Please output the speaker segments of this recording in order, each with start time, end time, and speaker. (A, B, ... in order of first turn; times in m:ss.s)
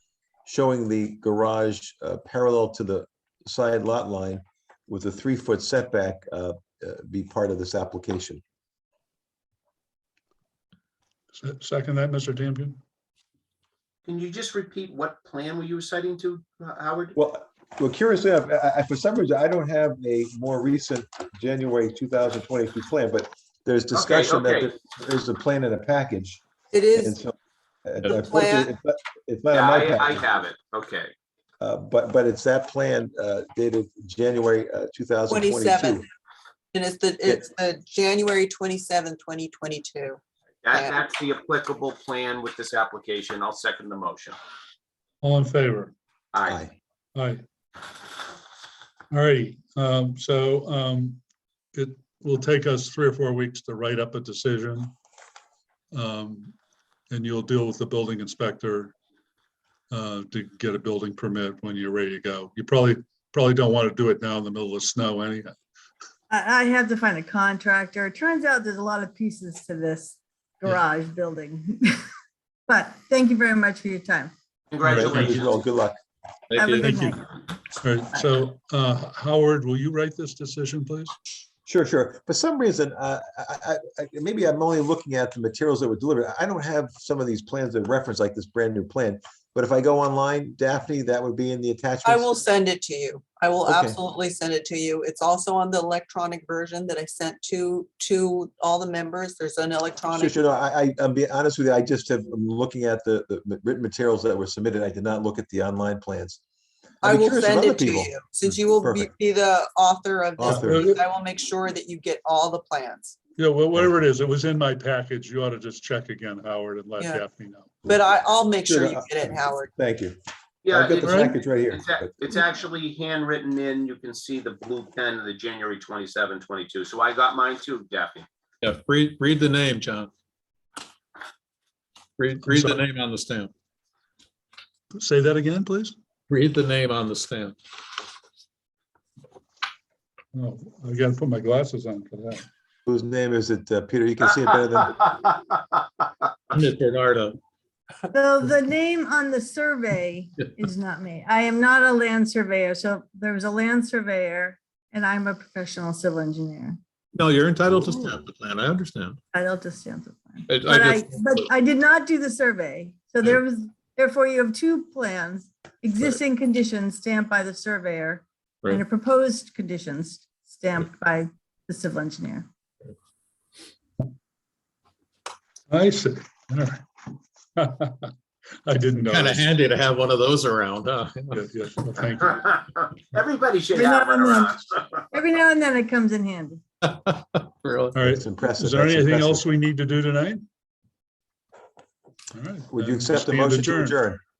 0:00.5-0:08.4 A
0:11.4-0:12.8 B
0:14.1-0:17.2 C
0:17.2-0:26.4 A
0:23.9-0:24.7 C
0:26.7-0:27.2 D
0:27.0-0:30.3 A
0:28.0-0:28.7 D
0:29.5-0:31.1 C
0:31.6-0:36.1 A
0:35.3-0:36.1 D
0:36.7-0:40.2 D
0:40.6-0:44.4 C
0:45.2-0:45.9 B
0:46.3-0:46.6 C
0:46.5-0:46.7 A
0:47.2-0:47.4 B
0:49.1-0:51.2 B
0:51.8-0:54.9 B
0:55.9-0:56.6 B
0:57.1-0:58.9 B
0:59.9-1:05.5 B
1:06.3-1:12.1 E
1:12.7-1:14.3 E
1:14.7-1:15.6 C
1:14.8-1:15.4 B
1:14.9-1:16.0 A
1:16.5-1:17.3 F
1:16.6-1:17.2 E
1:17.8-1:21.1 B
1:21.7-1:32.4 A
1:32.0-1:40.4 D
1:33.7-1:34.0 A
1:40.1-1:46.4 A
1:47.0-1:53.2 D
1:47.0-1:48.1 A
1:48.7-1:49.1 A
1:50.4-1:50.8 A
1:50.4-1:51.0 B
1:53.4-1:57.7 B
1:57.8-1:59.7 D
1:58.6-2:00.2 A
2:00.6-2:08.3 C
2:00.7-2:02.2 A
2:08.6-2:10.1 F
2:12.2-2:13.5 F
2:12.4-2:12.8 B
2:14.9-2:16.0 B
2:16.3-2:17.6 F
2:20.3-2:22.5 B
2:22.9-2:25.0 A
2:25.2-2:25.7 C
2:26.5-2:27.4 F
2:28.1-2:36.8 E
2:37.2-2:39.2 F
2:39.3-2:52.5 E
2:40.5-2:41.4 F
2:55.7-2:56.8 B
2:57.6-2:58.1 B
2:58.7-2:59.5 B
2:59.0-3:01.4 F
3:01.3-3:02.5 B
3:02.3-3:05.0 C
3:03.7-3:04.6 E
3:05.1-3:06.6 E
3:06.8-3:08.0 F
3:07.9-3:10.5 B
3:08.0-3:09.5 A
3:12.3-3:14.0 B
3:12.7-3:14.2 A